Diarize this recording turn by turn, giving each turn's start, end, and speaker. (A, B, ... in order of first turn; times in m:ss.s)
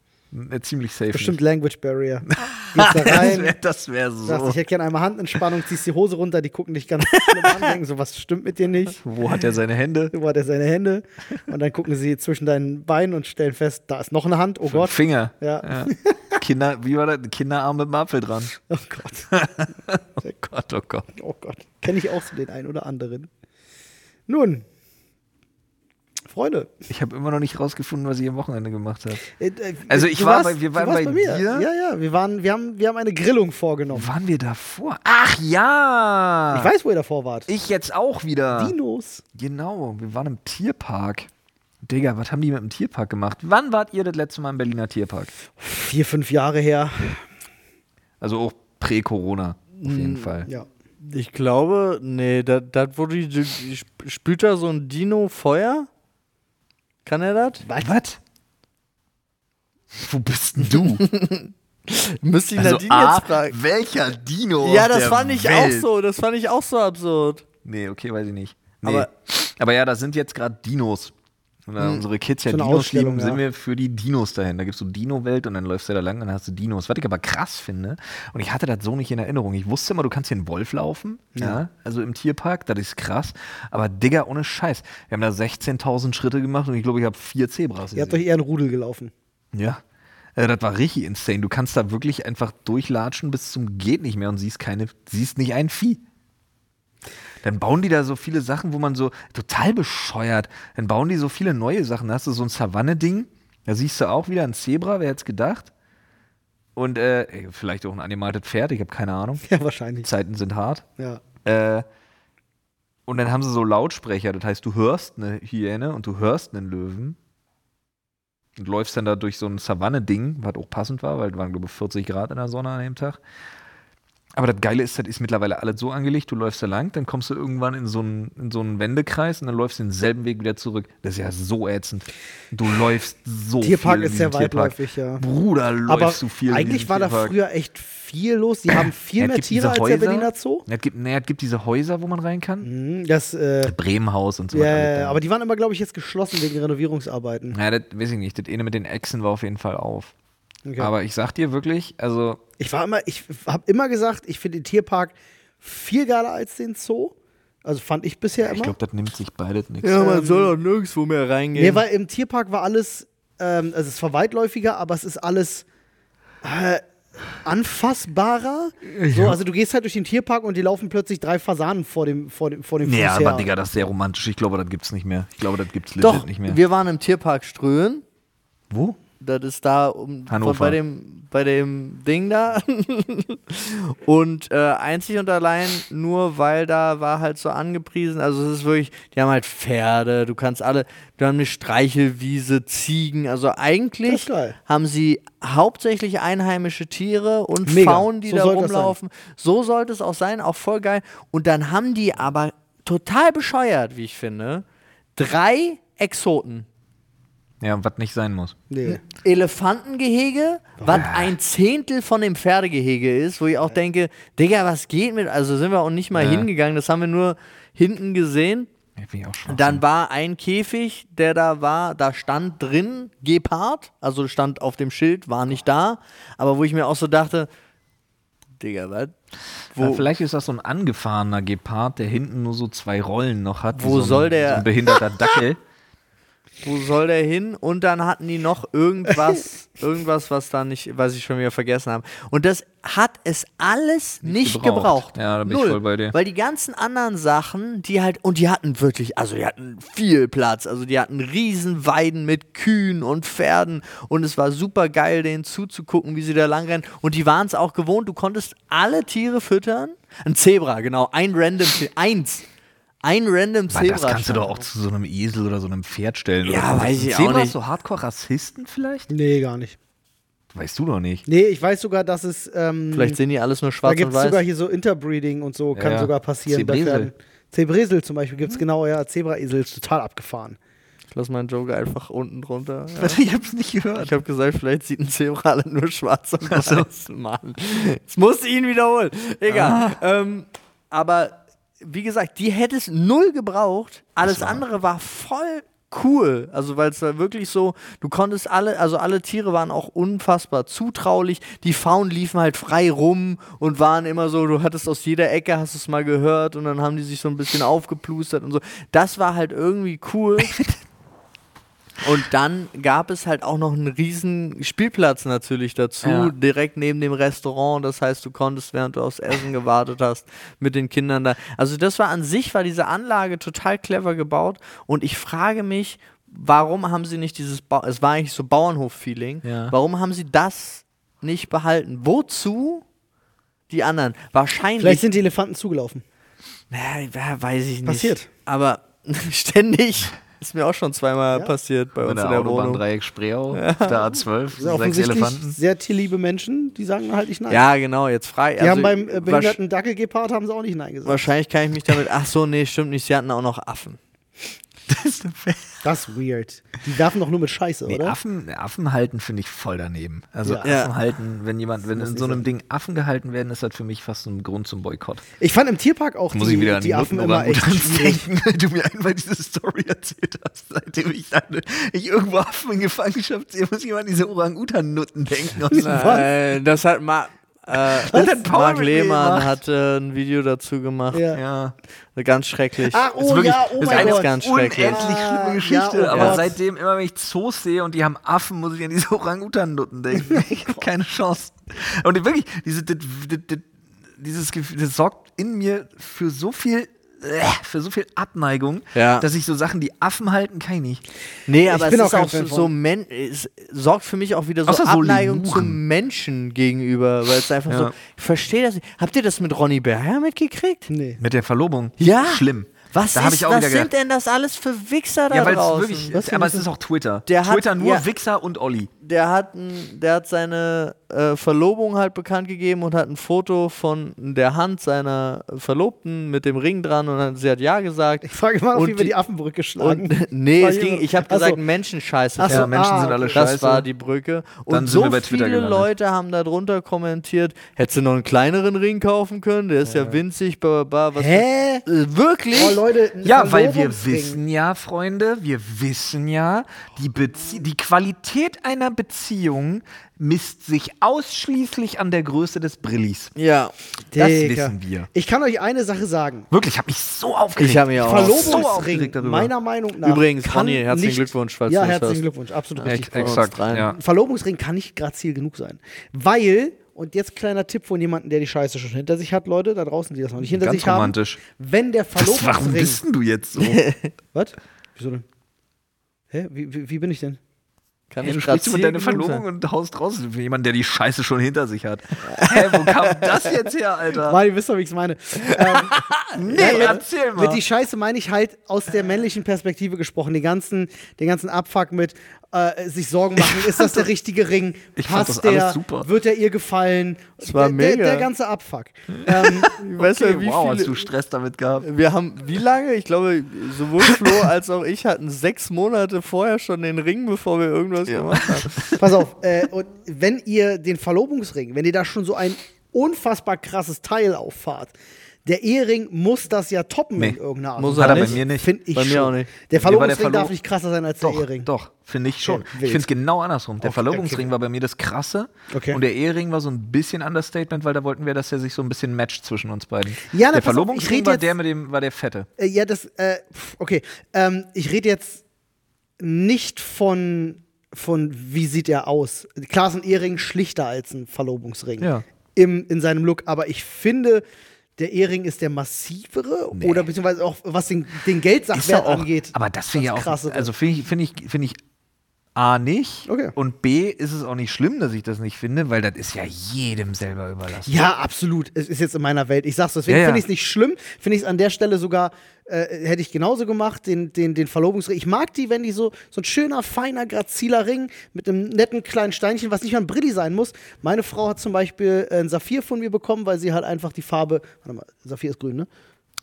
0:00.3-0:01.4 A
0:01.1-0:03.6 B
0:02.3-0:04.6 A
0:04.2-0:09.0 B
0:09.0-0:10.1 A
0:10.1-0:16.4 B
0:14.6-0:18.5 A
0:18.7-0:19.3 B
0:19.3-0:21.1 A
0:21.2-0:23.3 B
0:24.3-0:24.6 B
0:26.3-0:26.7 B
0:26.9-0:29.2 A
0:29.4-0:34.1 B
0:29.9-0:31.7 A
0:33.9-0:36.7 A
0:36.5-0:37.5 B
0:37.5-0:38.7 A
0:38.5-0:39.2 B
0:39.3-0:41.3 A
0:41.8-0:45.3 A
0:45.6-0:47.2 B
0:48.2-0:50.5 A
0:49.8-0:50.5 C
0:51.0-0:55.9 C
0:57.0-0:57.6 C
0:57.6-0:57.9 B
0:57.8-0:58.2 A
0:59.9-1:01.0 A
1:00.8-1:03.6 C
1:02.6-1:05.9 A
1:04.6-1:07.4 C
1:07.6-1:11.1 A
1:08.8-1:09.1 C
1:11.7-1:28.2 A
1:12.5-1:13.4 B
1:21.4-1:21.6 B
1:27.9-1:29.1 B
1:29.5-1:29.8 A
1:30.4-1:36.0 A
1:37.4-1:45.7 A
1:46.8-1:49.4 A
1:49.4-1:50.1 B
1:50.0-1:50.8 A
1:51.4-1:51.8 A
1:53.1-1:57.2 A
1:58.6-2:03.2 A
2:04.3-2:17.3 A
2:13.6-2:15.2 B
2:15.9-2:20.6 B
2:18.8-2:22.7 A
2:22.6-2:23.7 B
2:23.6-2:25.2 A
2:24.5-2:27.6 B
2:27.5-2:30.1 A
2:30.6-2:30.9 B
2:30.8-2:32.4 A
2:32.6-2:38.7 B
2:38.4-2:40.0 A
2:39.8-2:41.8 C
2:39.9-2:40.5 B
2:41.6-2:45.6 B
2:46.4-2:46.8 B
2:47.4-2:53.5 B
2:49.0-2:49.4 A
2:52.8-2:56.6 A
2:56.0-2:58.0 C
2:58.7-2:59.0 A
2:59.2-3:24.6 C
3:00.3-3:00.8 A
3:14.1-3:14.6 B
3:17.7-3:19.0 B
3:25.2-3:26.6 C
3:27.6-3:28.6 A
3:28.7-3:29.0 B
3:28.8-3:38.7 C
3:30.9-3:31.3 A
3:36.1-3:36.5 A
3:39.0-3:39.8 A
3:39.5-3:47.5 C
3:48.6-3:49.1 C
3:49.7-3:50.0 C
3:49.8-3:55.6 A
3:53.7-3:54.7 C
3:56.6-4:22.4 C
4:04.2-4:06.1 A
4:23.0-4:24.6 C
4:23.7-4:29.1 A
4:26.4-4:27.6 C
4:29.1-4:29.8 B
4:30.5-4:31.2 A
4:31.2-4:33.2 B
4:32.9-4:34.4 C
4:33.8-4:40.6 B
4:35.7-4:37.1 A
4:41.1-4:43.2 C
4:43.0-4:44.1 A
4:44.0-5:10.6 C
4:46.4-4:46.9 A
4:49.5-4:50.0 A
4:54.2-4:54.6 A
5:12.0-5:32.8 C
5:16.0-5:16.3 A
5:29.4-5:29.7 A
5:33.7-5:35.0 C
5:34.8-5:36.0 B
5:36.7-5:42.8 C
5:37.8-5:38.3 B
5:42.0-5:45.6 A
5:43.5-5:44.0 C
5:44.6-5:47.6 B
5:47.5-5:49.6 C
5:48.6-5:51.3 B
5:51.0-5:54.0 C
5:54.9-5:55.8 A
5:55.8-5:58.2 B
5:57.9-6:05.2 A
6:00.6-6:00.9 C
6:01.9-6:02.4 B
6:05.4-6:08.2 B
6:06.3-6:16.2 A
6:15.7-6:21.2 C
6:15.7-6:16.3 B
6:17.9-6:19.6 A
6:18.1-6:18.4 B
6:21.1-6:21.4 B
6:21.3-6:21.7 A
6:22.2-6:23.0 C
6:22.9-6:26.6 B
6:23.2-6:41.0 A
6:23.8-6:25.1 C
6:26.1-6:26.4 C
6:38.9-6:39.3 C
6:41.5-6:50.9 C
6:41.7-6:42.7 B
6:44.6-6:45.8 A
6:47.7-6:47.9 A
6:50.9-6:51.2 B
6:51.2-6:53.9 A
6:52.0-6:56.1 C
6:55.3-6:58.9 A
6:56.1-6:56.7 B
6:57.3-6:58.1 C
6:59.0-7:09.1 C
7:08.2-7:11.6 B
7:09.8-7:22.8 C
7:12.4-7:13.4 B
7:12.5-7:13.8 A
7:14.7-7:15.9 A
7:19.9-7:20.2 A
7:21.1-7:21.8 B
7:22.5-7:24.4 B
7:23.2-7:33.3 A
7:33.4-7:33.7 C
7:34.1-7:36.5 B
7:34.2-7:35.1 A
7:36.5-7:39.5 A
7:37.6-7:38.7 C
7:38.0-7:53.0 B
7:40.0-7:42.2 C
7:42.8-7:44.0 A
7:42.8-7:43.9 C
7:50.4-7:51.4 A
7:52.2-7:53.9 A
7:53.6-7:54.1 C
7:54.3-7:55.2 B
7:56.3-7:57.4 B
7:58.1-7:59.4 C
7:58.2-8:04.4 A
8:02.3-8:03.5 C
8:04.2-8:19.8 B
8:05.4-8:07.0 C
8:06.4-8:07.6 A
8:13.4-8:14.1 A
8:15.0-8:16.1 A
8:17.4-8:18.3 C
8:19.1-8:21.9 A
8:19.6-8:21.0 C
8:21.8-8:29.0 C
8:28.1-8:29.0 A
8:29.0-8:34.9 B
8:35.4-8:41.7 B
8:37.8-8:38.4 C
8:38.0-8:38.7 A
8:38.9-8:39.5 C
8:39.7-8:40.5 A
8:41.2-8:52.5 A
8:42.4-8:43.1 B
8:43.8-8:44.5 B
8:45.7-8:46.0 B
8:50.3-8:51.5 B
8:52.6-8:55.4 B
8:56.2-9:04.4 B
9:02.0-9:02.2 A
9:05.0-9:10.7 B
9:06.7-9:07.1 A
9:08.7-9:11.8 A
9:12.5-9:18.0 A
9:13.3-9:13.5 B
9:17.8-9:35.9 B
9:20.1-9:20.4 A